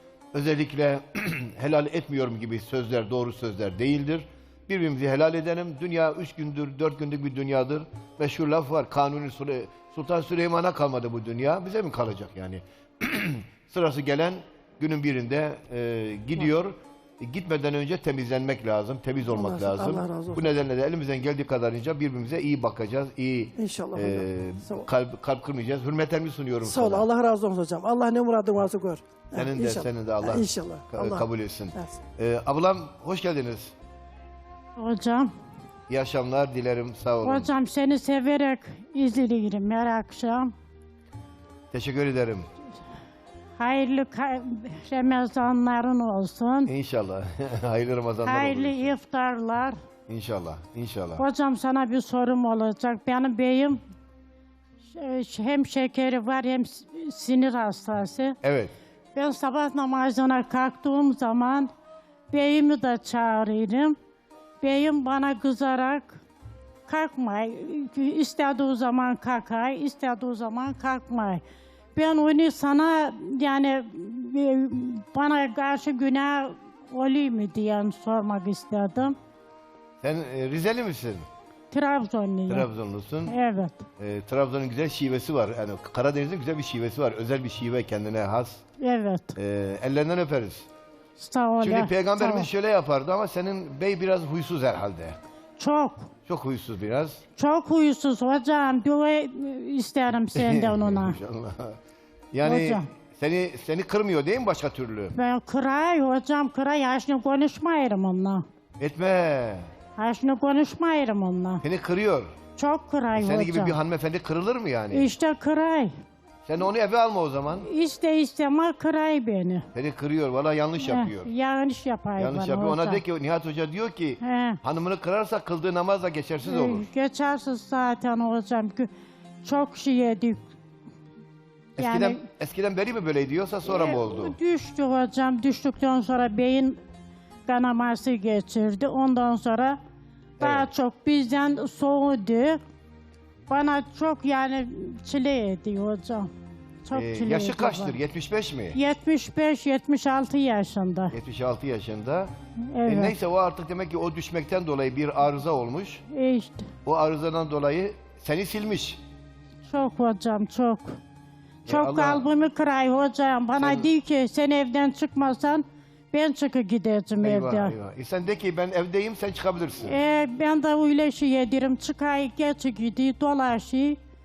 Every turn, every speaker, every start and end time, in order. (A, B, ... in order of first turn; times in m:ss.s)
0:00.3-0:27.0 A
0:19.3-0:20.5 B
0:23.6-0:24.8 B
0:26.6-0:31.9 B
0:29.3-0:33.7 A
0:34.8-0:35.3 C
0:35.9-0:37.5 A
0:37.2-0:40.5 C
0:41.7-0:42.5 A
0:43.6-0:46.7 C
0:46.6-0:48.9 A
0:48.2-0:49.8 C
0:50.1-0:51.2 A
0:51.2-0:53.8 C
0:54.8-0:58.4 C
0:58.4-0:58.7 A
0:59.1-1:01.7 C
1:02.3-1:04.0 C
1:04.6-1:06.2 C
1:06.9-1:11.4 C
1:11.9-1:19.2 C
1:20.0-1:21.2 A
1:21.7-1:22.7 C
1:22.5-1:23.3 A
1:23.2-1:23.9 C
1:24.0-1:28.6 A
1:28.8-1:29.3 C
1:29.4-1:30.7 A
1:31.2-1:32.5 C
1:31.6-1:35.2 A
1:35.6-1:36.1 C
1:36.2-1:37.2 A
1:37.4-1:41.2 C
1:40.3-1:41.8 A
1:42.3-1:45.2 A
1:42.4-1:42.9 C
1:45.1-1:48.4 C
1:48.8-1:49.7 A
1:50.0-1:51.6 C
1:51.6-1:52.3 A
1:52.6-1:53.8 C
1:53.1-1:55.1 A
1:54.9-1:55.9 C
1:56.4-1:57.7 A
1:57.6-1:59.7 C
1:59.7-2:01.3 A
2:00.8-2:03.0 C
2:02.2-2:06.9 A
2:04.2-2:04.6 C
2:06.4-2:08.9 C
2:09.4-2:10.4 C
2:11.8-2:14.3 A
2:11.8-2:12.2 C
2:13.6-2:16.8 C
2:17.4-2:19.8 C
2:20.4-2:20.7 A
2:20.4-2:22.6 C
2:23.5-2:26.3 C
2:26.8-2:28.0 C
2:26.9-2:28.8 A
2:28.7-2:31.1 C
2:31.1-2:32.3 A
2:32.7-2:33.1 C
2:32.8-2:36.0 A
2:36.1-2:36.7 C
2:36.8-2:39.0 A
2:39.6-2:41.0 C
2:41.6-2:42.2 A
2:41.6-2:47.7 C
2:43.6-2:43.9 A
2:47.2-2:50.0 A
2:49.8-2:54.0 C